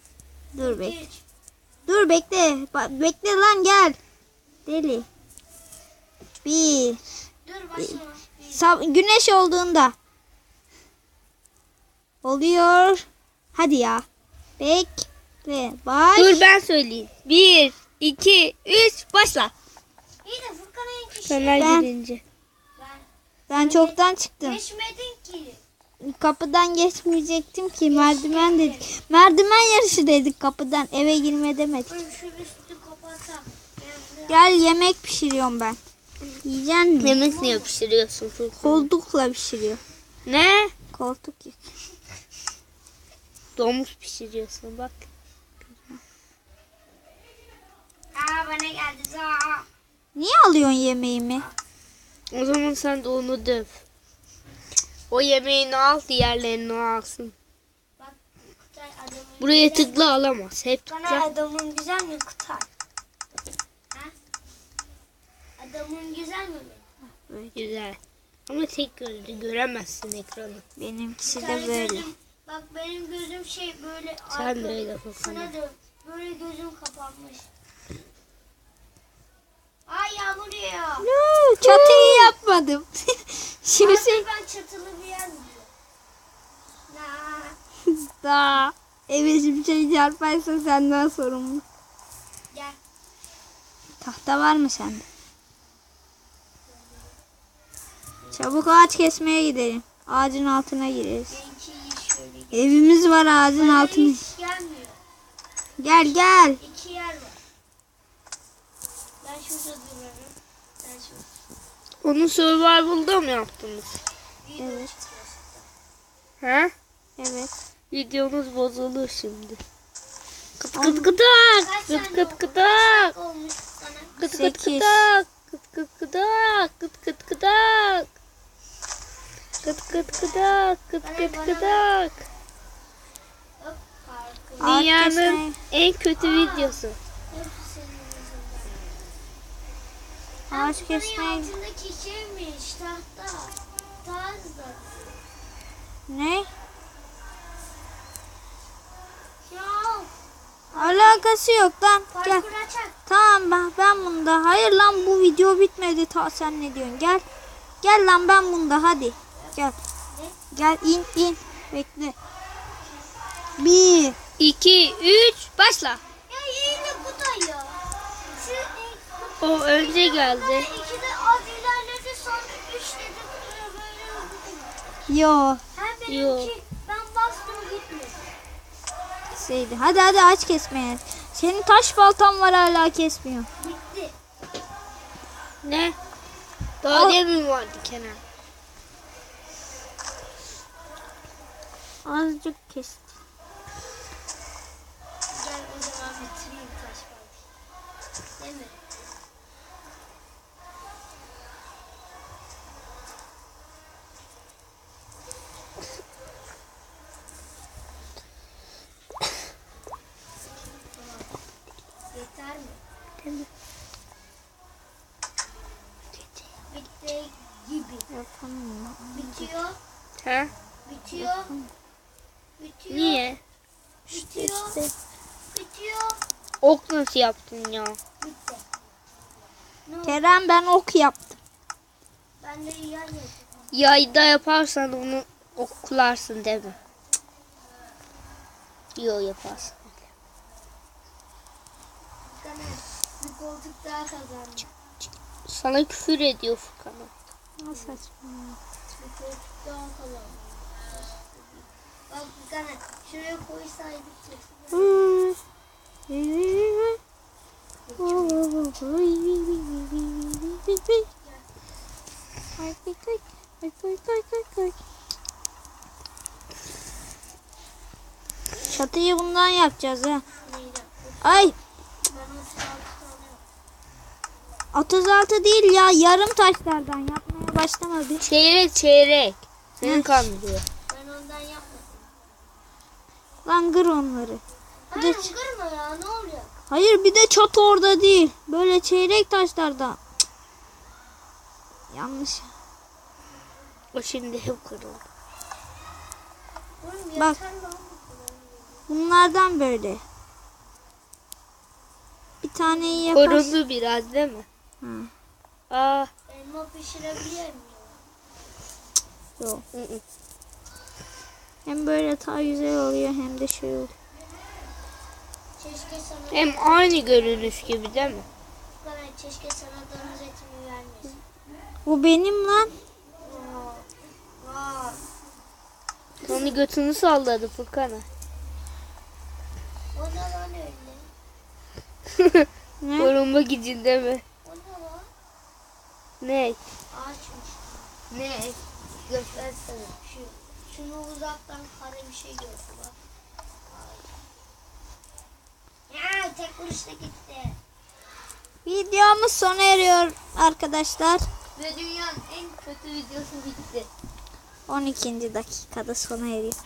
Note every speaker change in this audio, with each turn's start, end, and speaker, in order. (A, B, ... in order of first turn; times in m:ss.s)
0:00.5-0:01.0 A
0:00.6-0:01.2 B
0:01.8-0:04.0 A
0:04.6-0:05.1 A
0:06.4-0:07.0 A
0:07.4-0:08.7 B
0:08.5-0:09.9 A
0:12.2-0:14.0 A
0:14.6-0:16.4 A
0:16.1-0:19.5 C
0:20.2-0:21.8 B
0:21.3-0:22.2 C
0:21.6-0:21.9 A
0:22.8-0:25.6 B
0:23.5-0:24.6 A
0:26.0-0:32.0 A
0:27.8-0:28.9 B
0:31.9-0:34.5 B
0:34.3-0:35.8 A
0:36.4-0:37.2 A
0:37.0-0:38.9 C
0:37.1-0:37.7 B
0:38.6-0:39.8 A
0:40.2-0:40.7 C
0:40.9-0:41.6 A
0:43.6-0:45.0 C
0:48.1-0:49.7 B
0:50.1-0:51.5 A
0:52.3-0:53.8 C
0:55.1-0:57.3 C
0:58.0-1:00.0 B
0:59.4-1:01.3 C
1:00.9-1:02.7 B
1:05.6-1:06.9 B
1:07.3-1:07.6 A
1:07.5-1:10.6 C
1:10.8-1:12.1 A
1:11.2-1:17.5 B
1:14.3-1:15.5 C
1:19.8-1:21.1 B
1:21.0-1:24.2 A
1:21.7-1:22.3 C
1:23.7-1:25.7 B
1:26.9-1:27.6 B
1:28.0-1:31.6 A
1:32.5-1:32.8 B
1:34.0-1:35.0 A
1:36.8-1:37.1 B
1:38.3-1:41.3 A
1:41.3-1:42.8 B
1:42.5-1:44.2 A
1:43.5-1:45.0 B
1:45.8-1:46.6 A
1:46.6-1:47.4 B
1:49.2-1:51.2 B
1:52.0-1:54.0 C
1:54.4-1:55.7 B
1:54.6-1:54.9 A
1:56.4-1:56.7 C
1:57.2-1:57.5 A
1:57.9-1:59.6 C
2:00.6-2:03.1 C
2:00.7-2:01.1 A
2:01.6-2:04.1 B
2:04.2-2:08.1 C
2:04.2-2:05.1 A
2:09.6-2:11.8 B
2:09.6-2:12.2 C
2:13.6-2:14.9 B
2:14.6-2:17.0 C
2:14.6-2:15.6 A
2:16.2-2:18.9 B
2:20.5-2:21.5 A
2:20.5-2:25.2 B
2:26.1-2:26.5 A
2:29.4-2:30.1 B
2:30.7-2:31.2 B
2:30.7-2:32.4 A
2:32.1-2:33.0 B
2:33.1-2:37.2 A
2:37.8-2:39.8 A
2:40.1-2:40.4 B
2:40.5-2:42.1 A
2:43.6-2:44.2 A
2:44.4-2:46.0 C
2:46.3-2:49.3 B
2:49.4-2:50.7 C
2:50.3-2:55.0 B
2:55.1-2:55.6 A
2:55.7-2:58.3 B
2:56.1-2:56.5 C
2:59.3-3:03.5 A
3:03.6-3:04.1 B
3:05.6-3:06.0 C
3:06.8-3:08.2 C
3:06.9-3:07.2 A
3:12.0-3:13.1 A
3:15.3-3:17.4 B
3:18.4-3:18.8 B
3:30.9-3:31.3 B
3:32.1-3:32.8 B
3:33.2-3:33.5 C
3:36.7-3:38.1 B
3:38.1-3:39.5 A
3:39.1-3:39.8 B
3:40.2-3:40.5 C
3:40.8-3:41.5 B
3:41.3-3:41.7 A
3:42.6-3:43.3 B
3:42.9-3:43.4 C
3:44.1-3:44.8 B
3:44.1-3:44.9 C
3:45.5-3:46.2 B
3:46.6-3:48.0 C
3:48.2-3:48.6 B
3:49.8-3:50.2 B
3:50.0-3:51.4 A
3:52.4-3:53.4 B
3:53.7-3:56.8 C
3:59.0-3:59.9 C
4:02.3-4:04.7 B
4:05.5-4:07.1 C
4:07.6-4:08.6 A
4:07.7-4:08.0 B
4:08.9-4:11.4 B
4:12.1-4:15.1 B
4:14.7-4:15.4 A
4:16.1-4:17.0 A
4:17.9-4:18.5 B
4:18.0-4:21.0 A
4:22.6-4:24.7 A
4:28.7-4:30.2 A
4:30.4-4:33.4 B
4:31.2-4:31.5 A
4:34.7-4:38.3 A
4:38.2-4:40.6 C
4:40.9-4:42.1 B
4:43.4-4:44.4 A
4:44.9-4:46.6 B
4:44.9-4:45.3 A
4:46.7-4:50.0 A
4:51.9-4:52.5 A
4:53.9-4:55.0 C
4:56.8-4:58.9 B
4:58.9-5:00.0 A
5:02.4-5:03.6 A
5:02.6-5:03.1 B
5:03.1-5:04.4 C
5:04.8-5:05.1 A
5:05.7-5:06.1 C
5:06.3-5:08.0 B
5:09.4-5:09.6 A
5:09.7-5:10.0 C
5:11.6-5:13.9 A
5:15.6-5:18.1 B
5:16.3-5:18.2 C
5:18.8-5:21.2 B
5:21.8-5:22.7 A
5:23.2-5:25.0 B
5:26.2-5:28.0 C
5:26.3-5:26.5 B
5:29.9-5:31.1 B
5:32.2-5:32.5 C
5:32.8-5:33.1 A
5:33.0-5:34.2 C
5:34.4-5:35.1 B
5:36.2-5:36.6 C
5:36.9-5:37.9 B
5:38.1-5:39.6 C
5:39.2-5:43.0 B
5:43.7-5:44.1 B
5:45.9-5:47.6 B
5:48.6-5:51.2 A
5:51.6-5:53.9 C
5:54.7-5:56.6 A